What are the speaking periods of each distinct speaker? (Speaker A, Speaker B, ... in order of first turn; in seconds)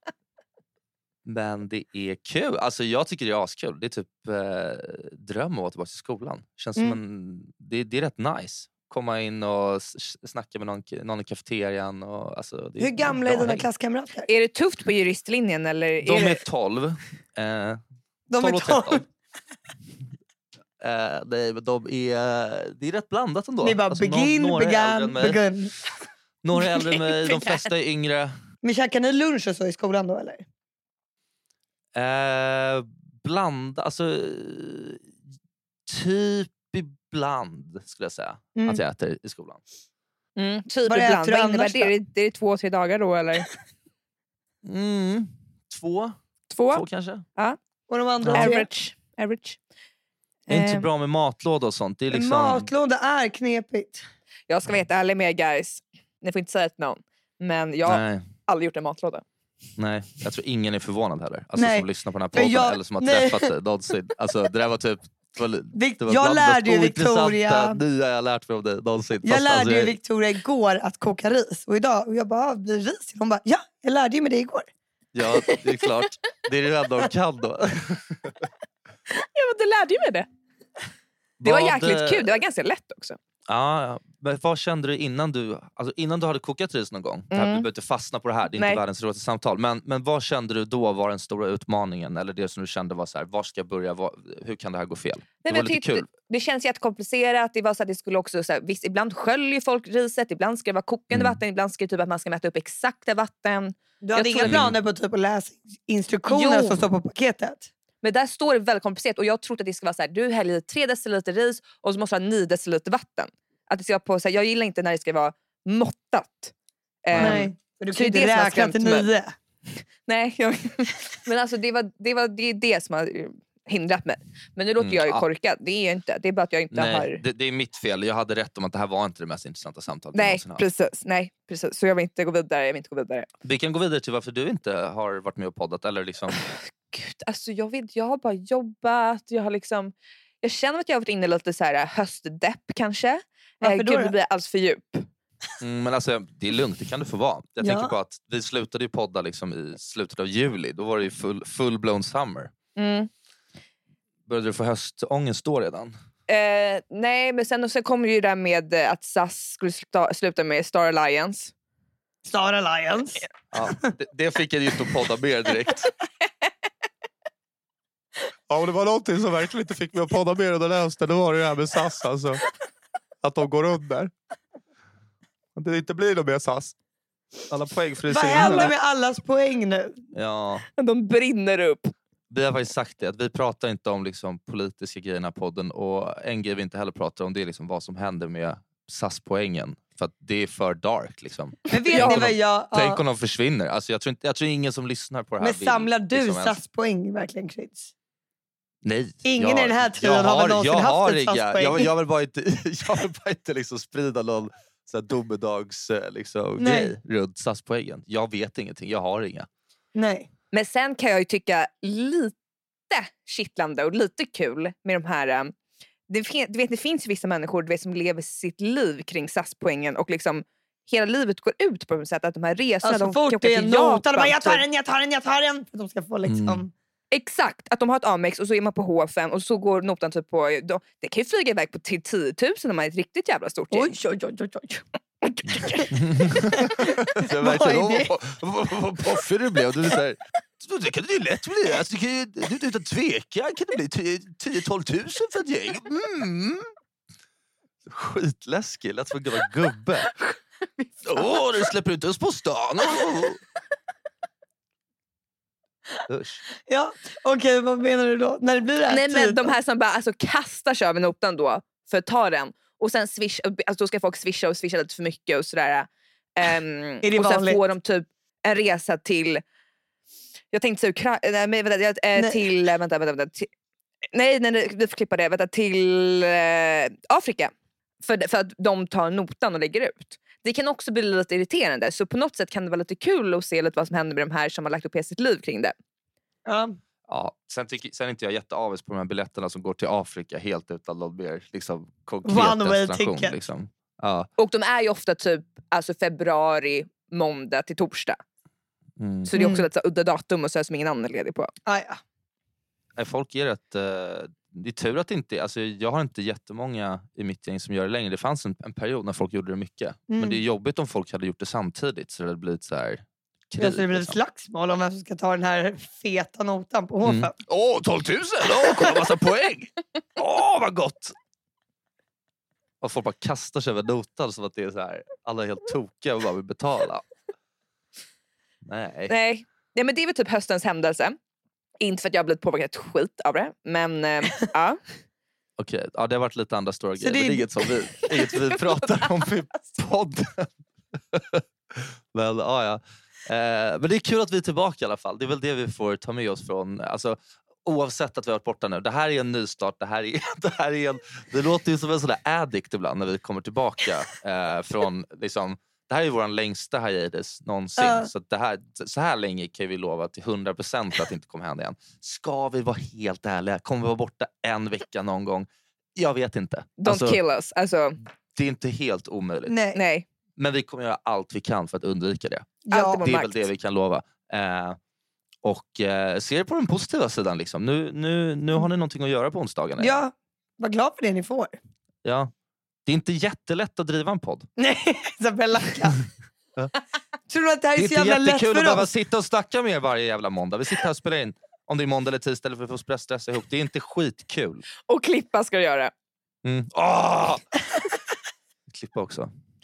Speaker A: 1.2-13.7, 16.0-17.8, 18.4-19.0, 20.8-25.4, 26.4-28.3, 31.9-35.1, 35.9-39.6, 44.6-46.1, 46.7-47.2, 48.2-48.5, 50.5-52.7, 57.9-58.3, 59.8-70.0, 75.1-78.3, 81.4-82.4, 83.5-96.0, 101.1-101.4, 104.4-104.7, 117.1-117.5, 124.8-125.2, 126.7-130.6, 133.4-136.4, 145.6-152.5, 154.3-155.9, 163.5-165.9, 168.5-172.4, 173.2-174.1, 175.6-176.7, 177.5-178.7, 180.1-180.7, 182.3-196.6, 198.8-209.5, 226.2-226.6, 235.9-246.7, 247.8-250.2, 251.0-253.4, 256.1-256.4, 287.1-294.3, 299.0-299.3, 303.0-314.2, 317.0-321.1, 322.8-327.0, 328.6-329.1, 335.6-340.5, 341.1-367.2, 368.3-369.6, 370.4-374.8, 375.4-380.0, 382.0-382.3, 382.9-384.5, 387.8-394.6, 396.4-397.4, 398.7-399.3
Speaker B: 12.8-14.3, 18.3-19.0, 23.6-25.8, 26.6-27.5, 28.6-30.4, 38.5-38.8, 40.9-41.9, 47.9-48.7, 52.1-54.0, 61.6-63.5, 65.7-67.8, 69.2-74.7, 104.0-107.7, 117.2-119.3, 143.6-144.1, 147.6-147.9, 162.2-163.2, 178.1-180.0, 191.7-193.0, 195.4-197.9, 199.2-201.9, 206.6-206.9, 209.9-210.3, 222.8-226.7, 233.7-235.9, 236.5-238.1, 256.6-259.5, 267.0-267.6, 286.4-286.8, 292.2-293.3, 299.3-299.6, 301.6-302.0, 310.1-310.4, 313.6-317.3, 337.0-337.7, 357.8-358.1, 369.4-369.8, 372.6-373.0, 379.8-381.5, 384.6-386.0, 387.3-388.9
Speaker C: 14.3-16.4, 40.4-43.5, 46.5-46.8, 48.3-49.6, 50.5-50.9, 54.5-59.2, 79.2-80.3, 81.4-83.2, 87.3-87.7, 95.4-104.6, 106.2-106.8, 108.0-116.5, 117.0-119.1, 120.0-127.2, 130.1-133.3, 136.9-145.1, 152.8-153.1, 156.3-161.5, 178.3-178.7, 180.8-181.9, 191.9-192.2, 210.5-212.3, 212.9-215.5, 216.1-224.6, 227.1-233.9, 258.9-269.4, 270.5-273.5, 274.1-277.5, 278.0-285.7, 294.4-298.2, 299.2-301.5, 329.1-331.2, 331.8-334.8, 366.8-368.0, 369.7-370.1, 372.7-373.5, 394.9-395.9